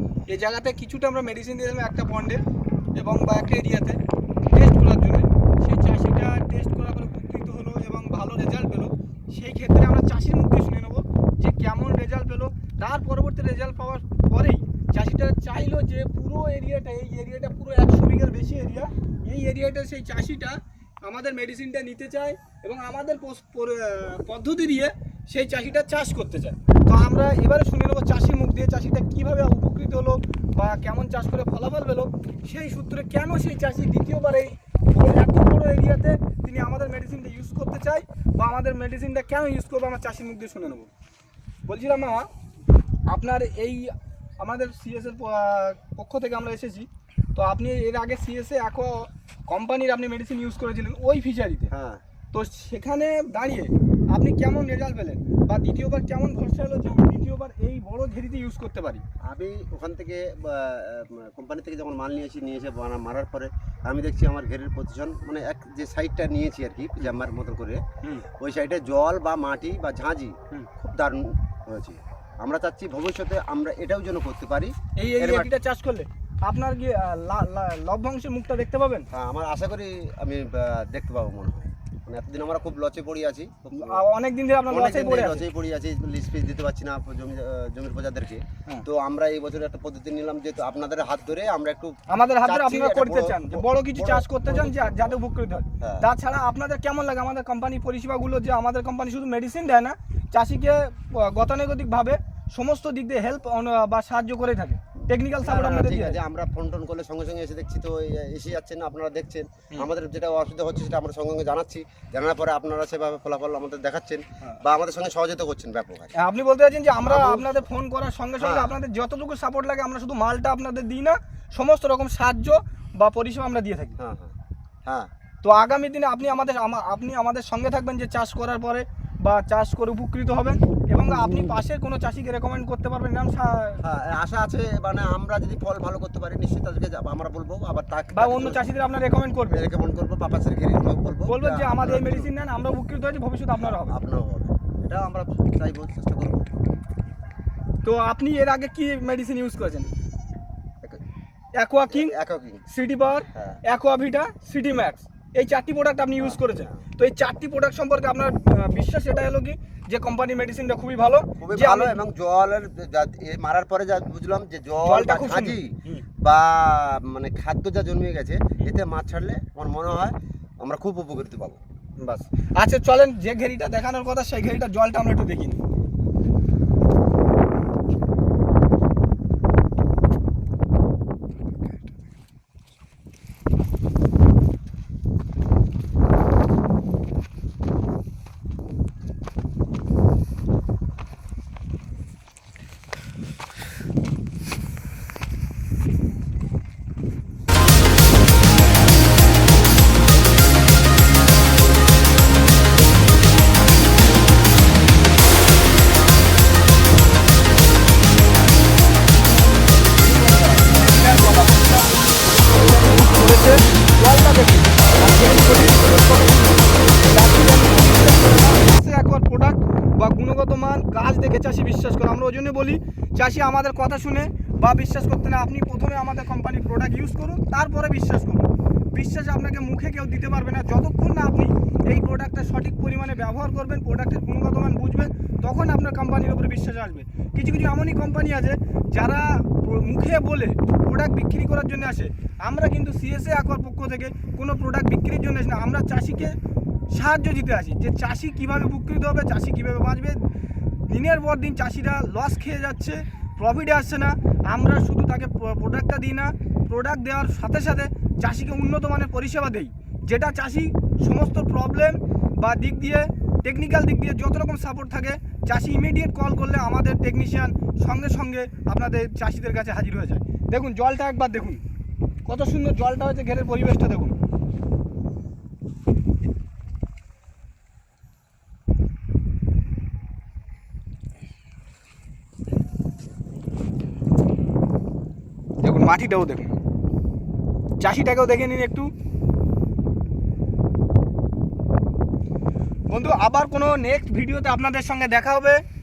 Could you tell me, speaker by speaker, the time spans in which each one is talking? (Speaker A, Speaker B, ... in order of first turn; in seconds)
Speaker A: 0.3-2.4, 3.0-4.0, 4.5-40.9, 41.7-42.3, 43.1-51.7, 52.3-59.0, 68.0-68.3, 75.0-79.1, 83.7-85.5, 92.1-106.2, 116.2-124.0, 125.4-133.8, 138.1-139.6, 141.3-144.0, 147.8-149.9, 151.6-152.1, 152.7-162.0, 164.8-166.0, 172.0-175.6, 210.0-246.3, 246.9-250.2, 250.9-271.6, 272.2-274.1, 285.6-286.6, 287.8-288.9, 292.9-295.6
Speaker B: 51.7-52.0, 59.2-67.8, 68.4-75.5, 79.1-84.0, 84.7-95.2, 95.8-96.1, 105.4-116.1, 117.0-117.6, 118.4-118.8, 124.0-124.3, 133.8-138.7, 139.5-142.3, 143.6-146.5, 151.9-152.7, 153.3-153.6, 156.2-156.8, 161.4-171.6